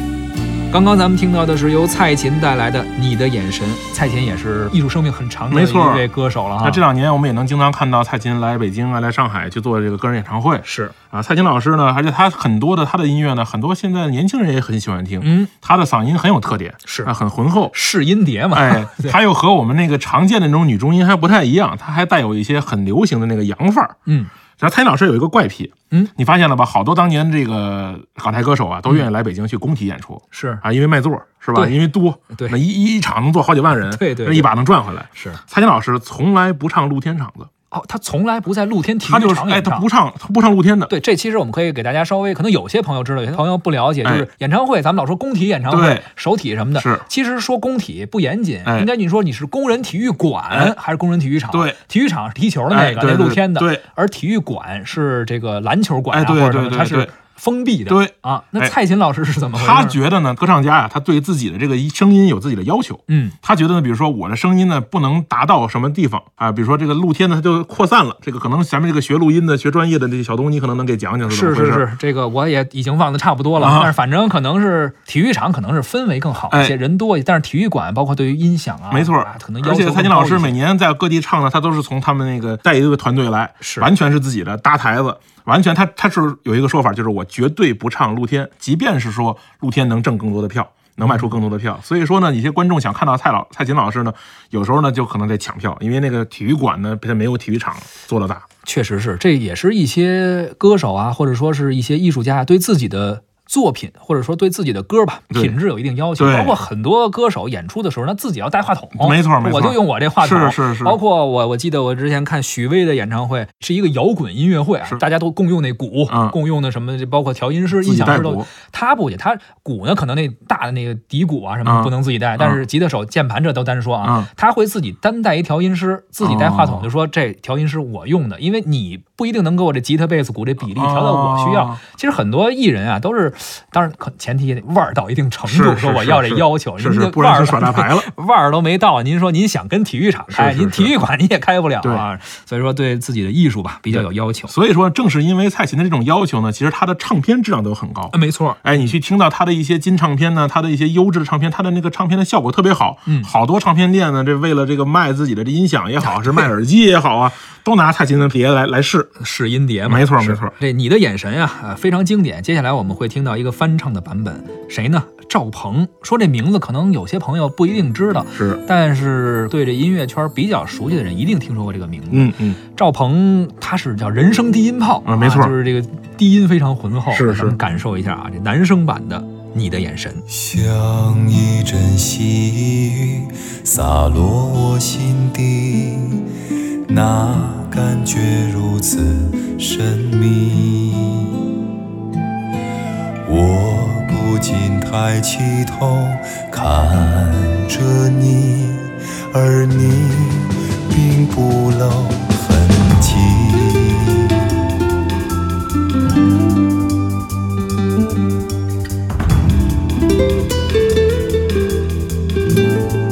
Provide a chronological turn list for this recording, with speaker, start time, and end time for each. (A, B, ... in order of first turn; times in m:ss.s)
0:00.7-0:06.8 A
0:05.5-0:06.0 B
0:06.6-0:17.7 B
0:10.6-0:10.9 A
0:15.2-0:15.5 A
0:16.8-0:17.1 A
0:17.7-0:19.2 A
0:18.5-0:23.9 B
0:24.0-0:24.3 A
0:24.6-0:37.5 B
0:30.3-0:30.6 A
0:32.3-0:32.6 A
0:33.8-0:34.5 A
0:35.1-0:35.4 A
0:37.7-0:39.9 A
0:39.0-0:40.9 B
0:40.9-1:00.0 A
0:45.7-0:46.0 B
0:46.8-0:47.0 B
0:52.7-0:53.8 B
0:56.1-0:57.1 B
0:57.9-0:58.8 B
0:59.5-1:11.8 B
1:03.1-1:03.4 A
1:11.3-1:20.6 A
1:13.6-1:13.9 B
1:16.5-1:16.8 B
1:18.9-1:38.4 B
1:23.6-1:23.9 A
1:31.0-1:31.3 A
1:38.6-2:24.5 A
1:46.2-1:46.6 B
1:49.0-1:51.0 B
1:56.1-1:56.4 B
1:57.8-1:58.5 B
2:01.6-2:02.6 B
2:04.0-2:04.3 B
2:06.2-2:06.8 B
2:10.8-2:11.8 B
2:15.5-2:18.1 B
2:20.3-2:20.9 B
2:23.9-2:39.1 B
2:28.1-2:28.6 A
2:36.0-2:36.5 A
2:39.2-3:00.2 A
2:39.9-2:40.5 B
2:48.3-2:48.6 B
2:52.1-2:52.6 B
2:55.0-2:55.5 B
2:57.1-2:57.5 B
3:00.3-3:11.6 C
3:13.2-3:24.6 C